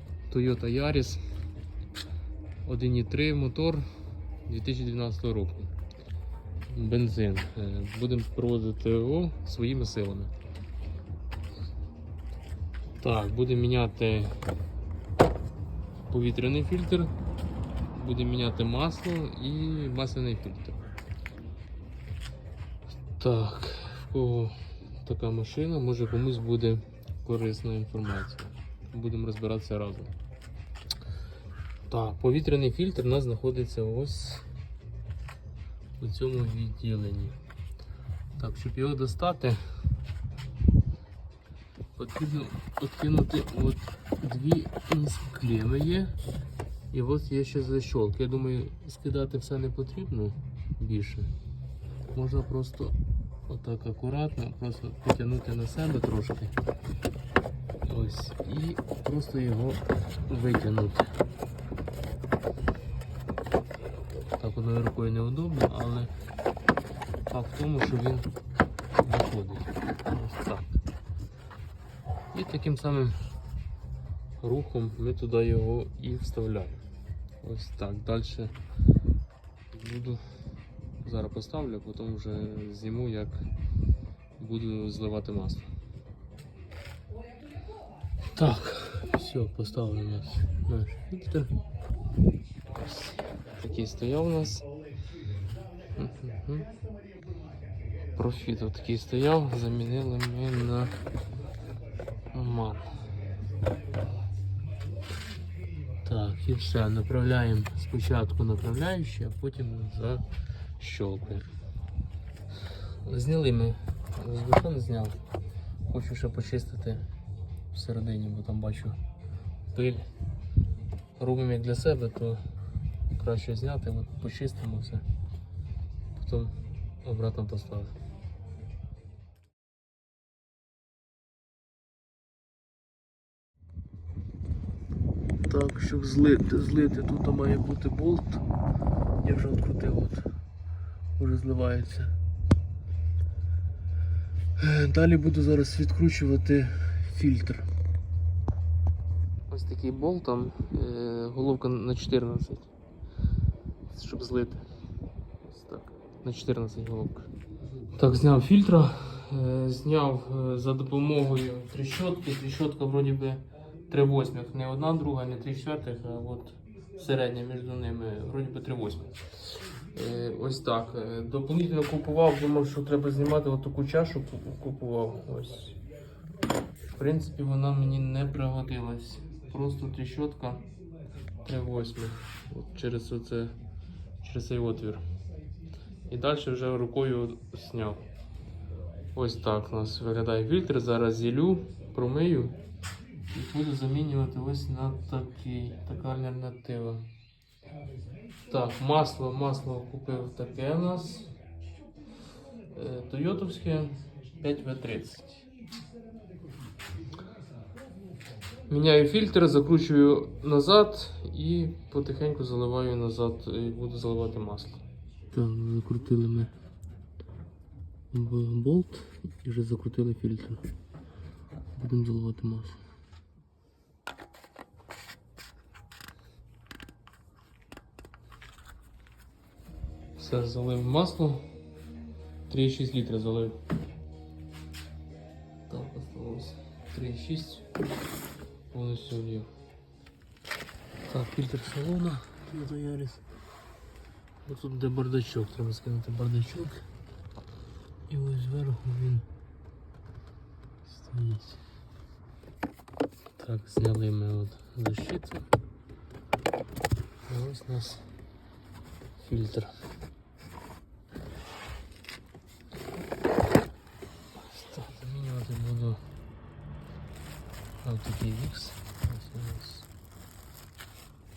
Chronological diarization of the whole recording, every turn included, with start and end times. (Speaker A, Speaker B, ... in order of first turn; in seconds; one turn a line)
Speaker A: 0.3-1.2
Speaker A: 2.7-3.9
Speaker A: 4.5-5.7
Speaker A: 6.7-10.3
Speaker A: 13.0-14.4
Speaker A: 16.1-17.1
Speaker A: 17.9-20.8
Speaker A: 23.1-30.1
Speaker A: 31.9-34.5
Speaker A: 36.0-37.4
Speaker A: 38.4-39.6
Speaker A: 42.0-46.1
Speaker A: 46.9-51.3
Speaker A: 52.1-56.5
Speaker A: 57.9-61.1
Speaker A: 64.3-66.1
Speaker A: 67.3-68.3
Speaker A: 69.0-70.8
Speaker A: 72.3-73.2
Speaker A: 74.4-76.8
Speaker A: 77.4-78.5
Speaker A: 79.7-80.2
Speaker A: 81.0-83.5
Speaker A: 84.4-85.7
Speaker A: 88.3-91.5
Speaker A: 92.7-94.7
Speaker A: 96.0-96.7
Speaker A: 98.2-101.0
Speaker A: 102.3-102.9
Speaker A: 106.0-110.2
Speaker A: 110.8-111.5
Speaker A: 113.0-115.2
Speaker A: 115.9-117.1
Speaker A: 117.7-119.0
Speaker A: 119.7-120.1
Speaker A: 121.2-122.4
Speaker A: 123.1-125.0
Speaker A: 126.2-128.0
Speaker A: 135.5-138.4
Speaker A: 139.2-140.3
Speaker A: 141.2-142.1
Speaker A: 144.6-147.7
Speaker A: 149.5-152.7
Speaker A: 153.9-154.7
Speaker A: 155.5-157.3
Speaker A: 157.9-175.8
Speaker A: 176.9-180.7
Speaker A: 181.4-183.6
Speaker A: 184.2-185.1
Speaker A: 186.1-188.0
Speaker A: 189.1-192.6
Speaker A: 193.3-197.1
Speaker A: 198.5-201.3
Speaker A: 202.7-205.4
Speaker A: 208.7-216.5
Speaker A: 218.1-220.6
Speaker A: 221.8-222.8
Speaker A: 230.2-231.5
Speaker A: 232.5-233.6
Speaker A: 235.7-237.7
Speaker A: 238.7-239.5
Speaker A: 241.1-243.2
Speaker A: 244.4-246.8
Speaker A: 248.1-249.3
Speaker A: 250.9-251.6
Speaker A: 253.3-255.5
Speaker A: 257.3-258.1
Speaker A: 259.2-259.8
Speaker A: 264.3-266.0
Speaker A: 267.8-269.9